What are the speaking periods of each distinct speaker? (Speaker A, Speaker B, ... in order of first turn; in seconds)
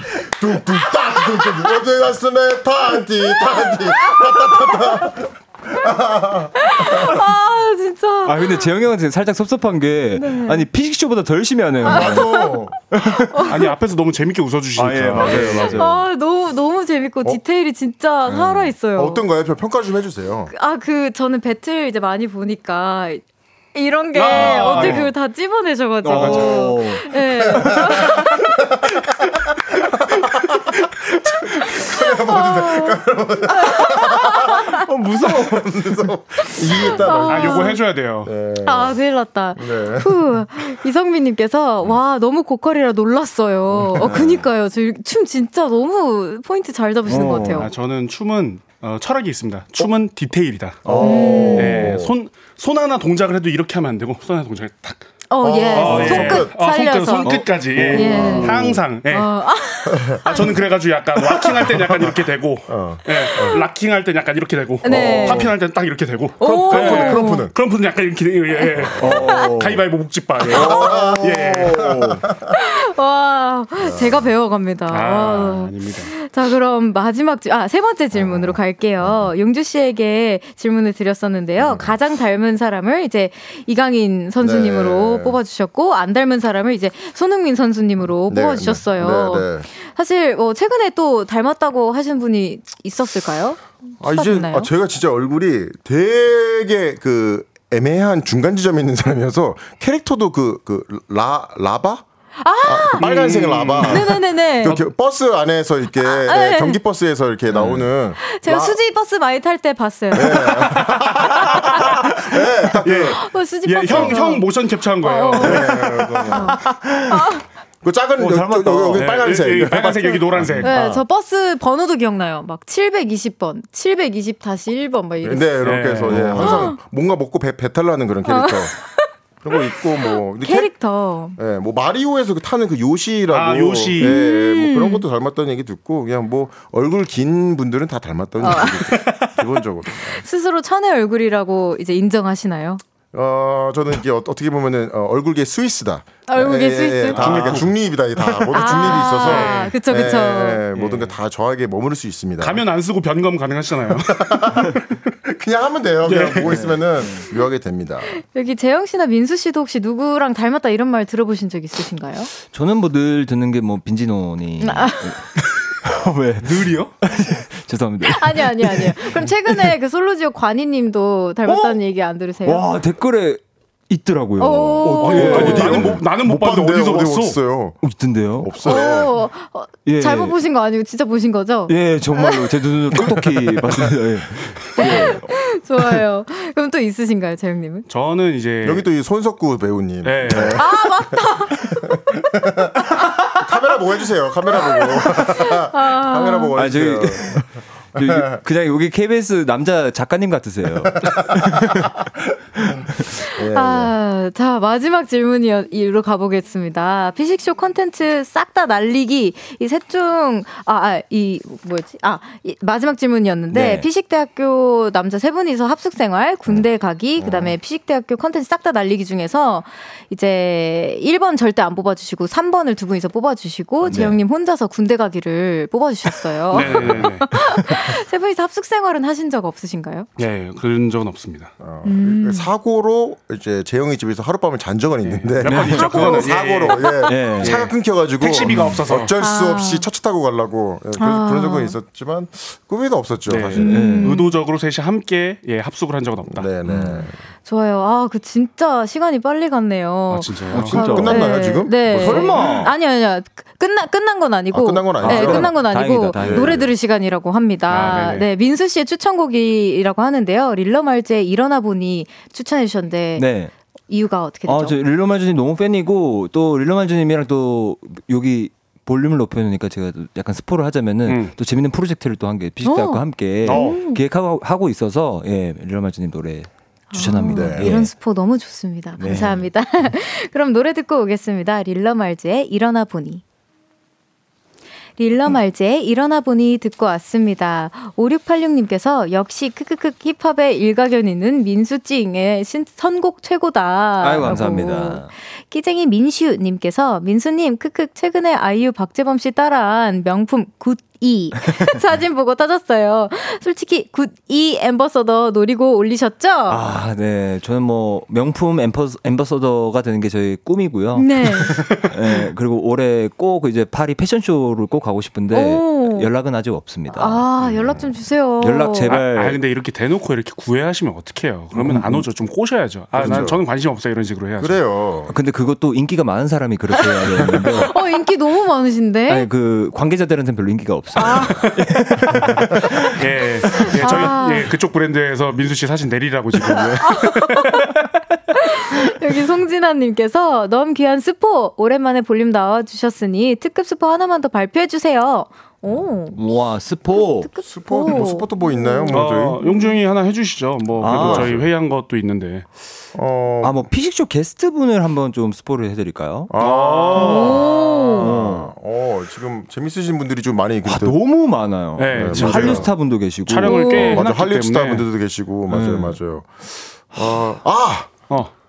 Speaker A: 0.2-7.2, 11.8-12.9, 15.2-15.8, 18.2-20.5, 27.5-28.2, 29.9-39.0, 39.6-40.7, 44.0-44.3, 50.9-52.1, 55.4-56.5, 57.8-58.8, 59.9-60.5, 61.4-63.6, 64.9-65.5, 66.4-67.5, 70.5-72.5, 73.8-74.3, 78.1-78.6, 81.6-81.9, 84.4-85.4, 88.3-89.7, 94.0-102.0, 102.6-108.8, 110.1-113.2, 113.9-114.2, 115.4-116.6, 117.8-120.8, 125.2-128.8, 129.4-130.8, 131.4-140.2, 143.1-152.6, 154.1-154.7, 155.3-158.1, 174.8-177.8, 178.4-179.1, 188.6-190.7, 193.4-198.4, 202.6-203.9, 217.2-217.5, 226.8-227.0, 231.6-243.7, 246.3-247.2, 250.6-252.7, 254.5-255.7, 256.2-256.7, 277.3-277.8, 317.4-317.9, 323.0-323.4, 324.4-325.1, 347.4-349.4, 350.9-351.5, 352.9-353.6, 356.3-361.0, 361.9-362.7, 363.7-368.0
Speaker B: 3.6-5.1, 6.5-8.7, 10.2-10.7, 11.8-12.6, 13.3-13.6, 15.5-19.2, 20.5-23.2, 23.7-28.5, 31.9-34.8, 36.4-37.8, 38.6-47.7, 51.0-51.9, 55.3-60.6, 63.2-63.6, 64.8-65.5, 66.4-67.5, 69.1-69.5, 70.7-71.2, 72.5-94.7, 102.4-103.0, 103.8-104.8, 106.0-106.8, 108.2-110.8, 111.4-111.8, 113.2-114.5, 115.0-115.7, 116.3-117.4, 120.6-125.5, 126.3-126.8, 128.3-131.4, 134.0-135.1, 138.4-139.0, 140.1-142.8, 146.3-147.6, 148.5-150.6, 158.2-162.3, 164.6-165.2, 168.0-172.6, 174.4-175.9, 178.6-182.5, 184.8-187.8, 190.6-191.8, 194.6-196.5, 203.2-230.1, 231.8-232.5, 235.7-236.3, 236.8-237.1, 239.2-239.9, 241.0-241.8, 243.6-244.4, 247.4-263.2, 263.9-264.8, 272.6-274.0, 276.9-283.2, 285.0-306.6, 310.9-311.6, 315.3-316.1, 316.9-318.9, 326.8-329.3, 331.0-331.4, 333.7-334.5, 336.8-337.7, 338.3-346.2, 346.9-349.8, 356.9-358.1, 363.4-364.0
Speaker C: 8.2-13.5, 14.8-16.0, 24.3-25.1, 26.0-27.9, 34.8-35.4, 44.0-44.5, 47.1-47.7, 50.9-51.9, 57.2-58.6, 65.0-65.4, 69.0-69.8, 118.2-119.1, 156.5-157.3, 162.5-169.7, 171.4-171.8, 172.4-176.0, 177.8-178.9, 179.8-180.3, 181.7-185.3, 196.6-201.9, 202.6-203.1, 213.5-213.9, 223.9-224.2, 235.4-235.9, 237.1-237.7, 238.5-238.8, 243.7-244.2, 246.6-247.1, 250.5-252.7, 255.0-256.7, 263.2-263.5, 264.5-277.9, 279.0-279.5, 294.0-295.1, 306.5-317.2, 318.4-319.4, 321.5-322.1, 323.0-323.3, 325.1-327.8, 329.1-334.1, 346.1-347.3, 350.8-351.4, 353.4-356.6, 358.0-358.5, 360.6-364.0, 365.5-366.0, 366.9-367.2
Speaker D: 13.4-15.9, 24.1-25.1, 26.1-26.8, 37.0-38.3, 47.5-55.0, 55.7-59.4, 60.2-72.2, 74.9-76.1, 103.0-104.2, 110.7-112.1, 112.8-116.5, 118.2-121.0, 125.6-126.7, 133.3-134.2, 139.0-139.3, 147.1-147.8, 148.5-149.8, 150.7-151.2, 152.4-154.8, 156.0-156.6, 175.0-177.4, 187.9-188.9, 190.0-190.6, 226.5-227.4, 230.2-231.5, 235.0-239.1, 243.3-246.5, 250.1-250.8, 257.7-258.3, 271.1-271.4, 273.4-273.8, 318.9-324.6, 331.4-331.7, 333.0-337.9, 348.9-352.5, 356.4-357.7, 361.8-364.9